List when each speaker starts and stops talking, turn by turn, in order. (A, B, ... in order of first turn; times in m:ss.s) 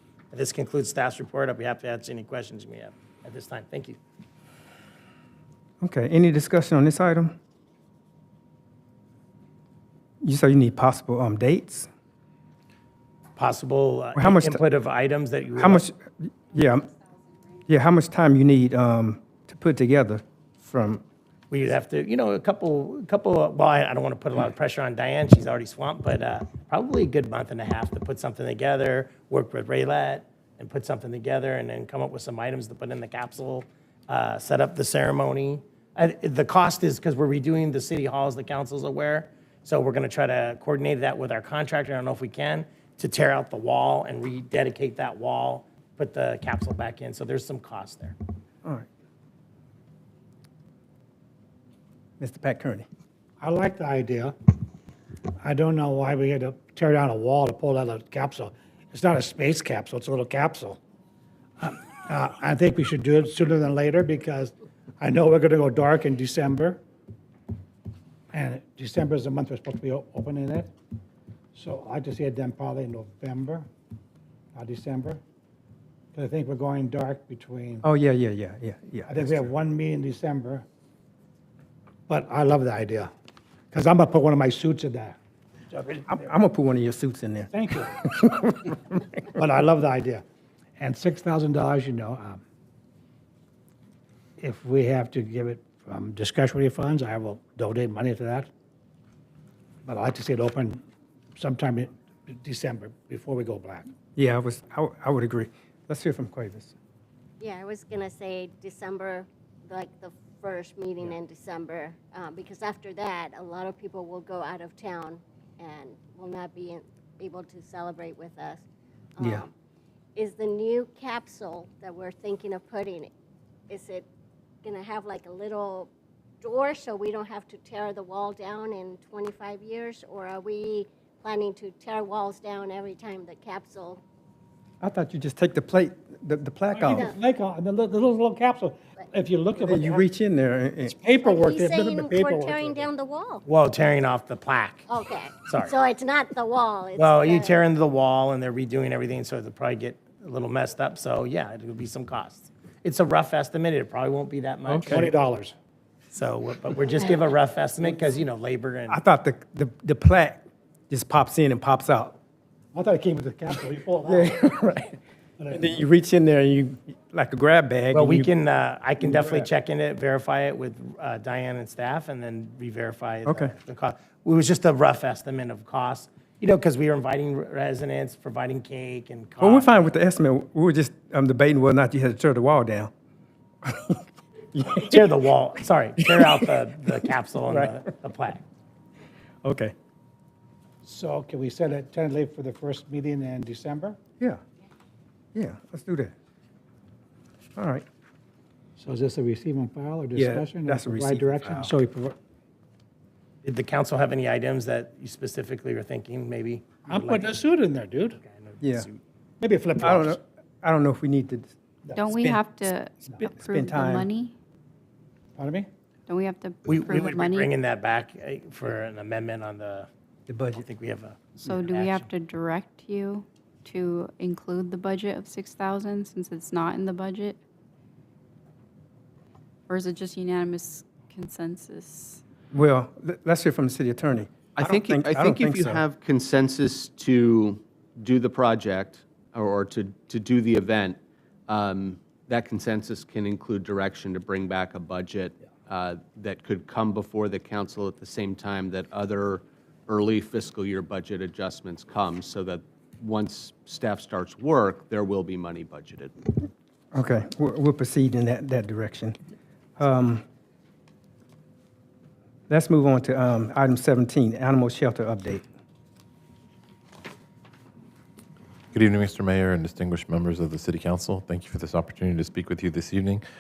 0:00.3-0:04.0 A
0:05.8-0:07.4 B
0:10.2-0:11.9 B
0:13.4-0:15.9 A
0:14.2-0:14.6 B
0:15.6-0:16.9 B
0:17.7-0:21.0 B
0:21.5-0:48.2 A
0:52.2-0:52.9 B
0:53.4-0:54.4 C
0:55.4-1:00.8 C
1:01.6-1:06.8 C
1:08.3-1:10.7 C
1:11.5-1:13.7 C
1:14.5-1:15.2 C
1:16.1-1:17.8 C
1:17.8-1:19.4 B
1:19.1-1:20.6 C
1:22.1-1:23.1 C
1:23.7-1:25.2 C
1:25.7-1:26.2 C
1:26.1-1:28.6 B
1:27.5-1:28.0 C
1:29.3-1:30.2 C
1:30.8-1:32.4 C
1:34.4-1:38.5 C
1:39.8-1:40.8 C
1:41.4-1:43.9 C
1:44.2-1:46.7 B
1:47.4-1:58.6 D
1:59.2-1:59.5 D
1:59.2-1:59.4 B
2:00.2-2:03.1 D
2:03.7-2:04.1 D
2:04.6-2:14.0 D
2:14.8-2:17.1 B
2:16.8-2:20.0 C
2:19.6-2:21.0 B
2:20.9-2:22.9 C
2:21.2-2:23.4 D
2:23.5-2:24.9 A
2:24.9-2:27.6 D
2:25.4-2:25.8 A
2:27.0-2:35.1 A
2:34.7-2:35.0 B
2:34.9-2:35.5 C
2:36.1-2:39.0 A
2:38.9-2:42.2 B
2:42.7-2:44.4 C
2:44.1-2:45.0 B
2:45.4-2:45.8 C
2:45.5-2:48.3 B
2:47.9-2:59.9 A
2:53.3-2:53.5 B
2:59.4-3:02.9 B
3:03.6-3:04.0 B
3:04.5-3:05.1 B
3:04.8-3:08.4 A
3:06.0-3:06.4 B
3:07.5-3:07.7 B
3:09.4-3:09.7 B
3:10.8-3:14.0 C
3:15.4-3:16.1 B
3:17.6-3:17.8 B
3:18.8-3:22.2 C
3:20.2-3:21.7 B
3:23.4-3:27.4 A
3:26.9-3:28.2 C
3:28.2-3:29.0 A
3:28.6-3:28.9 B
3:29.4-3:30.2 C
3:29.8-3:31.5 B
3:32.0-3:34.3 E
3:32.1-3:32.4 B
3:33.4-3:34.1 B
3:35.4-3:35.7 C
3:36.1-3:37.5 E
3:36.7-3:39.9 A
3:40.3-3:40.6 B
3:40.5-3:42.1 A
3:41.5-3:47.4 E
3:49.7-3:52.2 E
3:52.5-3:55.8 B
3:54.6-4:16.1 F
4:16.9-4:19.2 B
4:19.8-4:20.2 B
4:22.5-4:25.4 B
4:28.7-4:33.2 G